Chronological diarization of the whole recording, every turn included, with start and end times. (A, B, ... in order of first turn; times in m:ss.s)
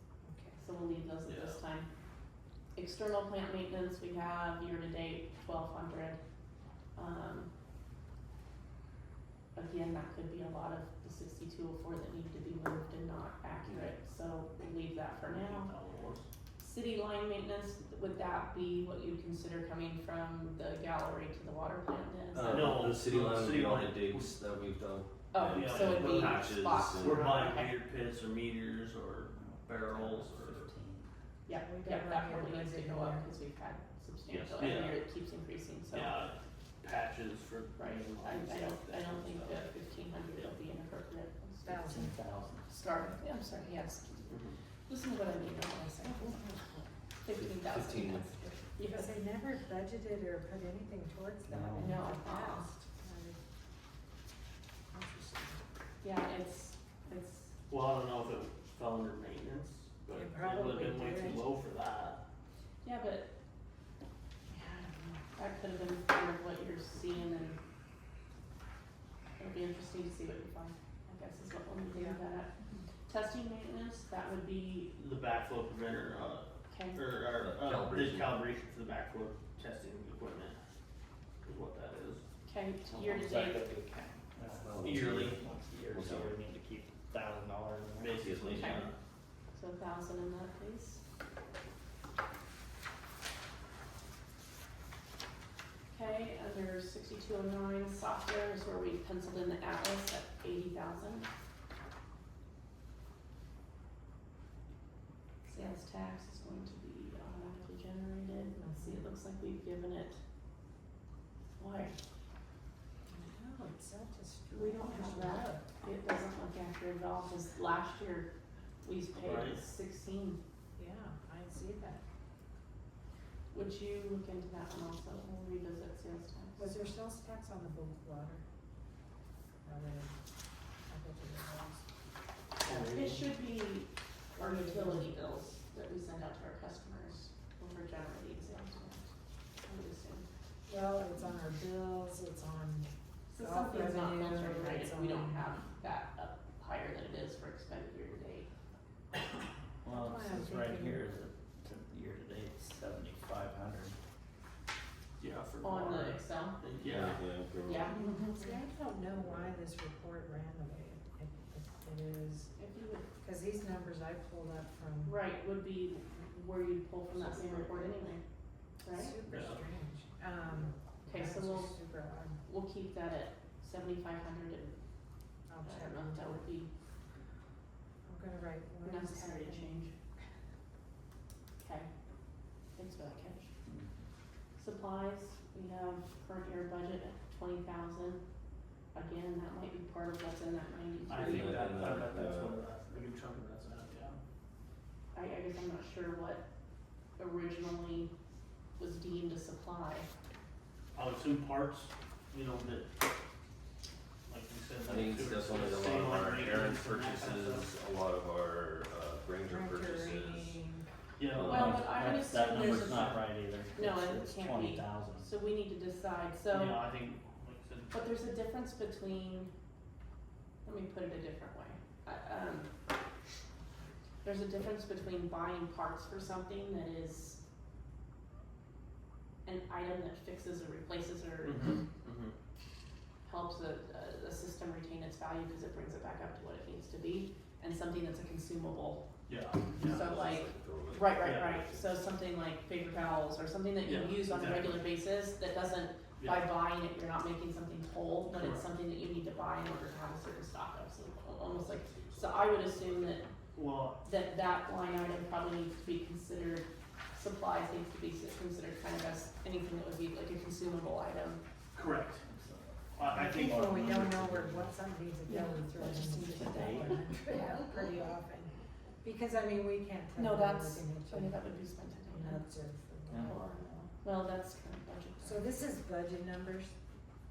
0:00.2-0:00.6 A
0:00.6-0:01.9 B
0:01.2-0:01.6 C
0:02.8-0:06.2 B
0:07.0-0:07.5 B
0:09.5-0:15.7 B
0:15.3-0:16.2 C
0:16.6-0:22.8 B
0:22.3-0:27.3 D
0:22.4-0:24.3 C
0:25.3-0:27.8 B
0:25.5-0:30.7 C
0:29.3-0:31.1 E
0:31.5-0:36.2 B
0:31.5-0:33.3 A
0:34.3-0:35.0 C
0:35.9-0:39.7 C
0:37.8-0:42.0 B
0:41.6-0:42.1 A
0:41.8-0:42.7 E
0:42.7-0:46.4 B
0:44.3-0:44.6 C
0:45.8-0:46.8 A
0:47.2-0:49.2 B
0:47.3-0:48.7 D
0:48.8-0:53.4 A
0:51.5-0:52.0 E
0:51.8-0:52.7 B
0:54.9-0:55.6 A
0:56.0-0:57.5 B
0:57.7-1:02.2 C
1:00.1-1:01.5 A
1:02.8-1:03.3 B
1:04.5-1:07.6 B
1:09.4-1:12.5 B
1:11.9-1:12.2 A
1:13.1-1:14.9 B
1:14.9-1:20.6 C
1:16.7-1:17.0 B
1:17.4-1:18.4 D
1:21.4-1:22.2 C
1:22.4-1:23.6 B
1:22.9-1:28.2 E
1:24.5-1:26.4 D
1:24.8-1:25.4 C
1:28.0-1:28.9 C
1:28.2-1:28.8 D
1:28.4-1:28.9 B
1:29.5-1:31.0 B
1:35.9-1:41.3 B
1:45.4-1:50.2 B
1:48.5-1:49.0 A
1:51.5-1:52.0 B
1:53.1-1:55.6 A
1:54.5-1:58.3 B
1:58.8-2:00.4 B
1:59.1-1:59.6 C
2:00.8-2:02.0 A
2:03.5-2:06.8 B
2:06.6-2:08.4 A
2:09.6-2:10.1 A
2:10.9-2:11.8 A
2:12.6-2:13.3 C
2:12.6-2:20.3 B
2:14.3-2:15.2 A
2:20.7-2:25.6 A
2:23.3-2:28.5 B
2:29.8-2:34.0 E
2:29.9-2:31.0 A
2:35.2-2:37.2 C
2:35.6-2:36.6 B
2:36.8-2:37.9 D
2:37.6-2:38.4 B
2:38.0-2:42.5 A
2:42.6-2:43.1 B
2:43.2-2:45.2 A
2:45.0-2:48.2 B
2:47.1-2:47.9 C
2:48.8-2:49.2 B
2:48.9-2:52.4 A
2:49.3-2:49.6 C
2:51.0-2:51.8 B
2:52.4-2:54.8 B
2:55.5-2:56.4 A
2:55.6-2:56.7 B
2:58.1-2:59.9 A
2:58.8-2:59.9 B
3:01.6-3:01.9 B
3:02.8-3:03.5 B
3:03.6-3:03.9 E
3:04.6-3:08.2 B
3:08.9-3:11.8 B
3:11.1-3:14.2 C
3:11.1-3:12.6 D
3:15.1-3:16.4 B
3:17.2-3:18.1 B
3:18.8-3:20.1 B
3:20.9-3:22.9 C
3:24.3-3:27.7 C
3:24.8-3:30.6 D
3:29.5-3:30.9 A
3:31.2-3:31.8 C
3:31.3-3:31.8 D
3:31.3-3:35.3 E
3:31.4-3:36.8 B
3:32.6-3:33.2 C
3:36.5-3:38.0 C
3:37.9-3:39.5 B
3:40.6-3:42.7 B
3:44.2-3:47.4 B
3:49.4-3:51.7 B
3:51.4-3:52.3 C
3:53.2-3:59.0 B
3:59.3-4:00.0 C
3:59.8-4:01.8 D
3:59.8-4:13.2 B
4:01.2-4:01.6 C
4:03.8-4:04.8 C
4:06.2-4:06.5 C
4:08.3-4:08.6 C
4:11.4-4:13.3 D
4:13.5-4:14.0 C
4:14.0-4:21.4 B
4:21.7-4:22.2 C
4:22.2-4:24.7 E
4:23.0-4:24.1 C
4:23.1-4:28.5 A
4:25.2-4:27.6 B
4:26.0-4:27.0 E
4:29.0-4:31.4 A
4:30.2-4:32.5 B
4:32.1-4:33.8 A
4:33.1-4:35.5 B
4:33.1-4:33.4 E
4:35.2-4:36.7 A